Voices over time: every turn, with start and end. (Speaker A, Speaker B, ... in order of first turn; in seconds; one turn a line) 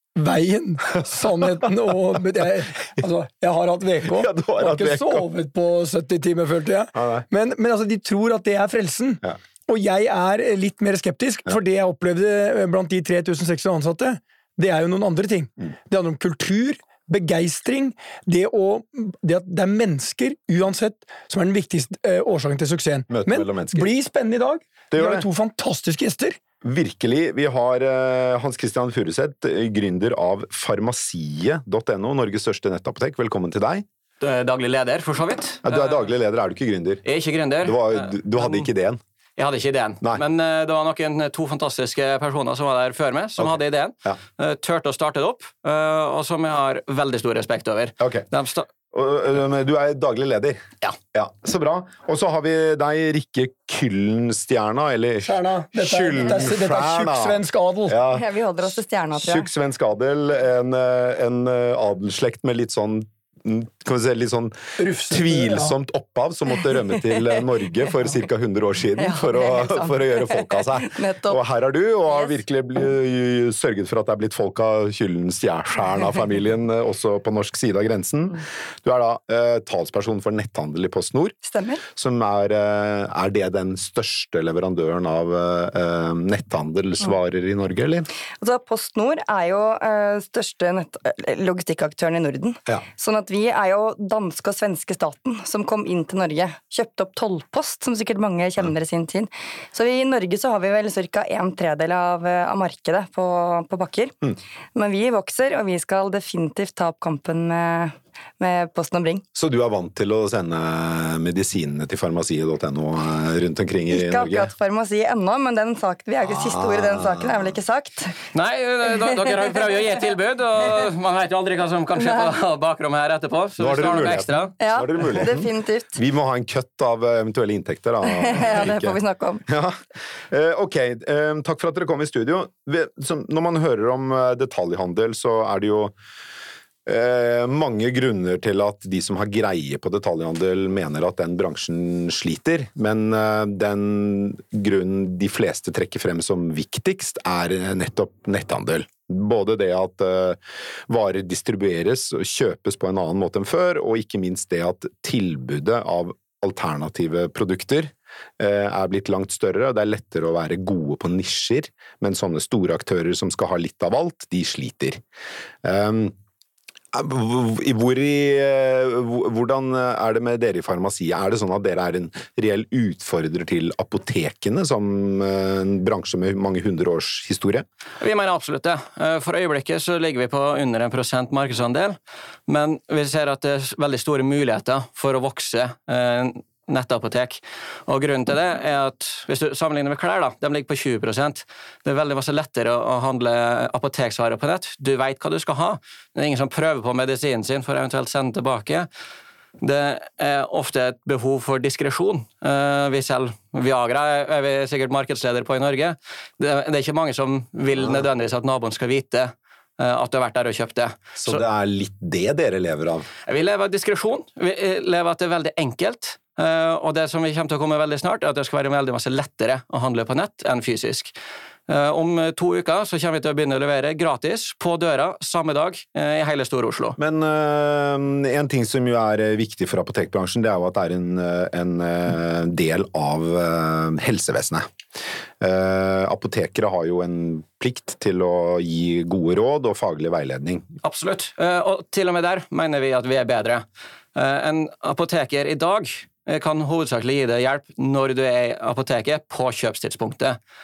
Speaker A: 0.1-26.4
Speaker B: 4.0-5.3
Speaker B: 6.9-7.2
Speaker B: 23.1-23.9
Speaker B: 24.9-25.2
Speaker B: 26.6-33.9
Speaker C: 34.2-36.0
Speaker B: 35.6-37.0
Speaker C: 37.0-38.7
Speaker B: 37.6-39.0
Speaker C: 39.4-48.7
Speaker B: 48.0-48.2
Speaker B: 48.9-58.2
Speaker A: 55.2-58.0
Speaker D: 58.1-59.5
Speaker B: 59.2-81.3
Speaker A: 64.8-65.7
Speaker D: 69.0-71.4
Speaker D: 81.4-81.8
Speaker B: 81.9-88.1
Speaker D: 88.4-104.1
Speaker D: 104.7-109.2
Speaker B: 109.3-114.5
Speaker D: 113.9-118.2
Speaker B: 116.2-117.5
Speaker C: 118.3-124.5
Speaker B: 123.6-135.9
Speaker D: 124.6-126.0
Speaker D: 128.1-129.4
Speaker B: 136.8-165.0
Speaker B: 165.6-166.1
Speaker B: 166.9-177.6
Speaker C: 178.0-198.9
Speaker C: 199.6-211.4
Speaker B: 211.2-213.1
Speaker C: 213.3-221.1
Speaker C: 221.7-227.0
Speaker B: 227.0-234.6
Speaker B: 235.4-240.7
Speaker C: 240.8-243.6
Speaker C: 244.1-250.4